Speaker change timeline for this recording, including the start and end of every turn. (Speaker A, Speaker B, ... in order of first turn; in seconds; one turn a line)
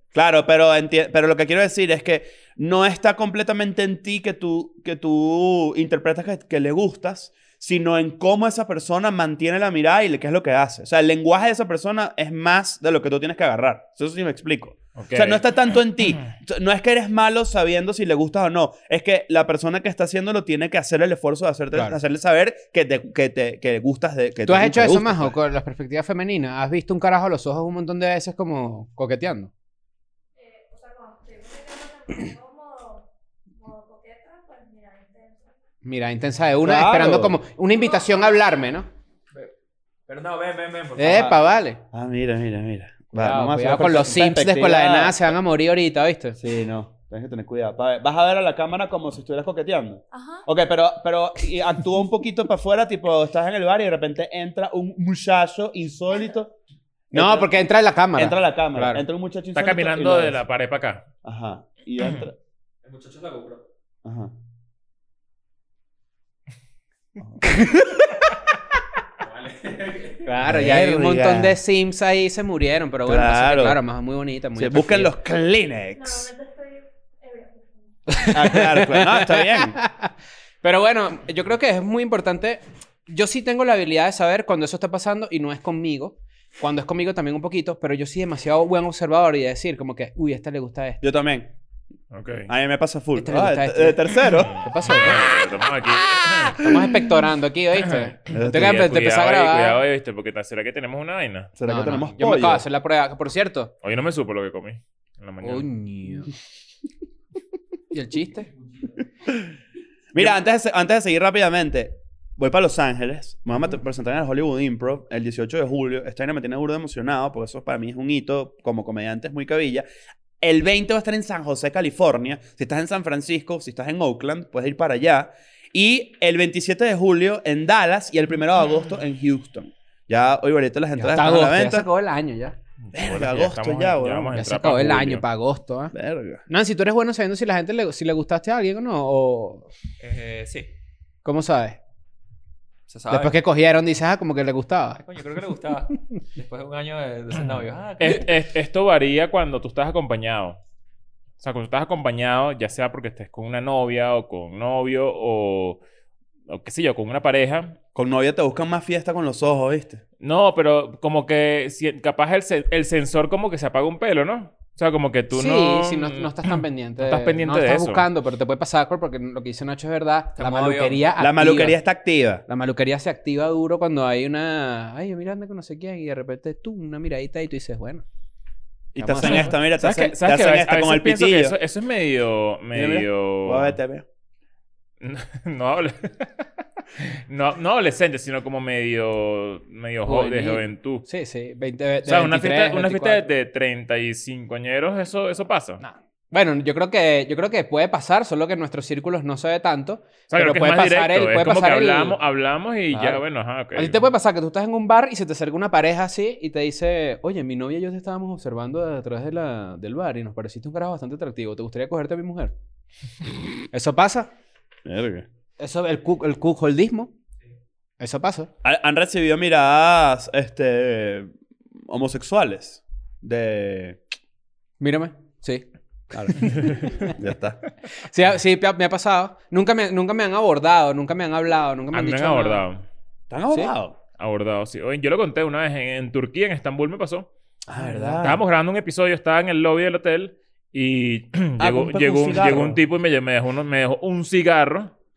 Speaker A: 0.1-25.4
Speaker B: 15.0-15.5
Speaker C: 24.5-29.5
Speaker D: 30.4-35.5
Speaker C: 35.8-38.9
Speaker A: 36.6-37.4
Speaker D: 37.9-38.5
Speaker E: 40.1-41.4
Speaker C: 41.0-41.8
Speaker A: 41.9-45.3
Speaker C: 43.2-46.4
Speaker A: 46.4-56.5
Speaker D: 50.1-50.5
Speaker A: 57.1-57.5
Speaker C: 57.1-59.0
Speaker A: 58.2-60.4
Speaker B: 59.5-61.0
Speaker A: 61.2-62.3
Speaker E: 62.8-63.6
Speaker A: 64.0-64.3
Speaker C: 67.4-68.2
Speaker E: 69.2-70.2
Speaker C: 70.2-75.1
Speaker A: 70.4-71.6
Speaker A: 73.1-73.8
Speaker A: 74.6-76.3
Speaker D: 76.0-78.3
Speaker C: 78.1-91.0
Speaker A: 78.3-79.8
Speaker A: 91.0-91.5
Speaker B: 92.1-92.5
Speaker A: 92.5-94.6
Speaker C: 93.2-95.2
Speaker B: 94.4-96.7
Speaker C: 96.5-99.8
Speaker A: 98.3-98.8
Speaker B: 98.3-101.5
Speaker A: 101.6-102.6
Speaker C: 101.6-103.7
Speaker B: 103.8-105.7
Speaker C: 105.4-106.3
Speaker C: 107.9-108.5
Speaker A: 110.1-119.8
Speaker A: 120.4-131.9
Speaker C: 131.0-132.6
Speaker B: 132.8-135.2
Speaker A: 132.9-134.4
Speaker C: 134.3-135.9
Speaker A: 135.9-136.4
Speaker C: 136.5-139.7
Speaker E: 140.0-140.7
Speaker C: 141.2-141.8
Speaker E: 142.9-143.4
Speaker C: 143.1-145.0
Speaker E: 145.0-148.3
Speaker B: 148.0-150.6
Speaker B: 151.4-155.8
Speaker B: 156.5-157.8
Speaker A: 157.9-160.0
Speaker B: 160.2-168.1
Speaker C: 165.3-171.8
Speaker E: 170.4-171.0
Speaker A: 171.2-172.4
Speaker C: 172.5-178.0
Speaker C: 179.0-179.6
Speaker A: 179.0-181.6
Speaker B: 179.2-183.8
Speaker A: 182.7-184.1
Speaker B: 185.0-191.1
Speaker C: 190.1-193.3
Speaker B: 192.1-195.8
Speaker C: 195.8-202.2
Speaker B: 200.3-204.0
Speaker C: 202.9-203.2
Speaker C: 203.8-212.5
Speaker C: 213.7-214.3
Speaker A: 214.9-215.3
Speaker C: 215.6-217.1
Speaker C: 218.0-218.5
Speaker A: 218.6-224.0
Speaker C: 224.8-227.2
Speaker A: 226.1-227.6
Speaker C: 228.0-232.6
Speaker B: 231.9-232.8
Speaker A: 233.3-234.0
Speaker B: 234.2-237.3
Speaker C: 237.7-238.3
Speaker A: 237.7-238.4
Speaker B: 238.2-244.9
Speaker A: 241.6-242.8